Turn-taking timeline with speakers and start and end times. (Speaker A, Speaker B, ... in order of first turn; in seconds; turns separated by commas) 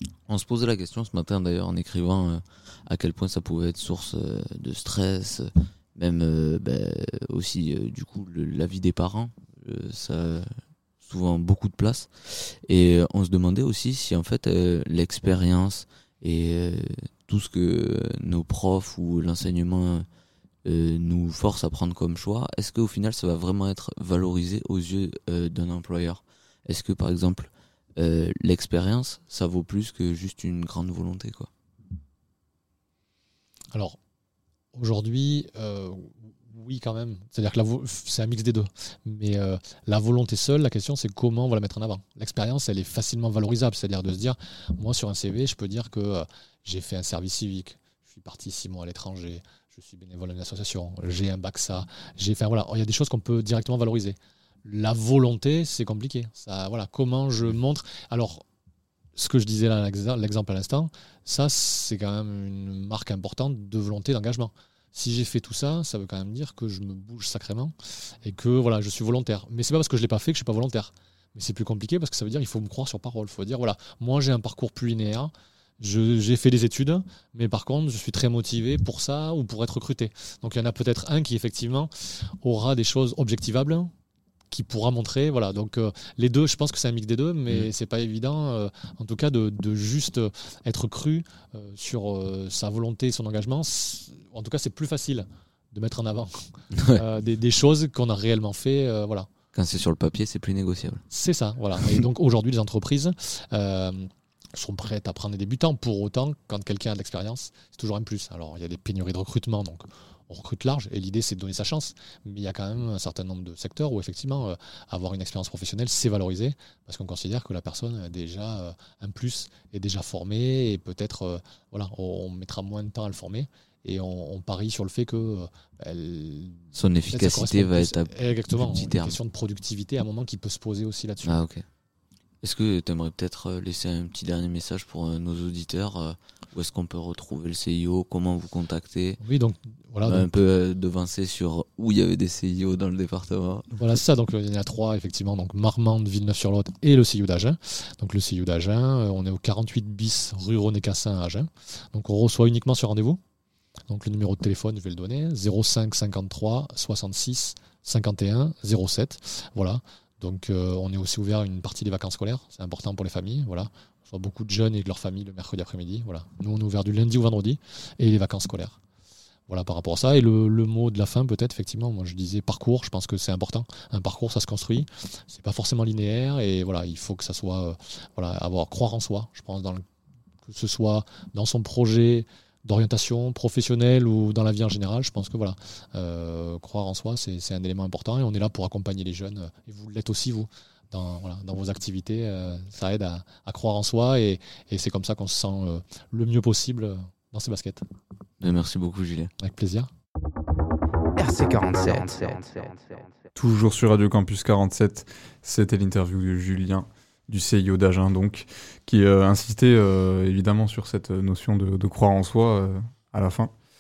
Speaker A: 0.3-10.5, Speaker A: 11.0-20.1, Speaker A: 20.6-31.5, Speaker B: 34.7-58.4, Speaker B: 59.1-83.9, Speaker B: 84.5-99.3, Speaker A: 96.7-97.0, Speaker A: 99.5-101.0, Speaker B: 101.1-131.4, Speaker A: 101.8-102.0, Speaker A: 126.7-129.2, Speaker A: 131.2-131.7, Speaker A: 132.4-139.2, Speaker B: 139.2-140.3, Speaker A: 140.0-143.7, Speaker B: 143.7-153.2, Speaker B: 153.9-168.8, Speaker B: 169.5-179.8, Speaker B: 180.4-197.8, Speaker A: 198.4-199.3, Speaker B: 199.4-199.9, Speaker C: 201.2-203.2, Speaker D: 203.4-213.5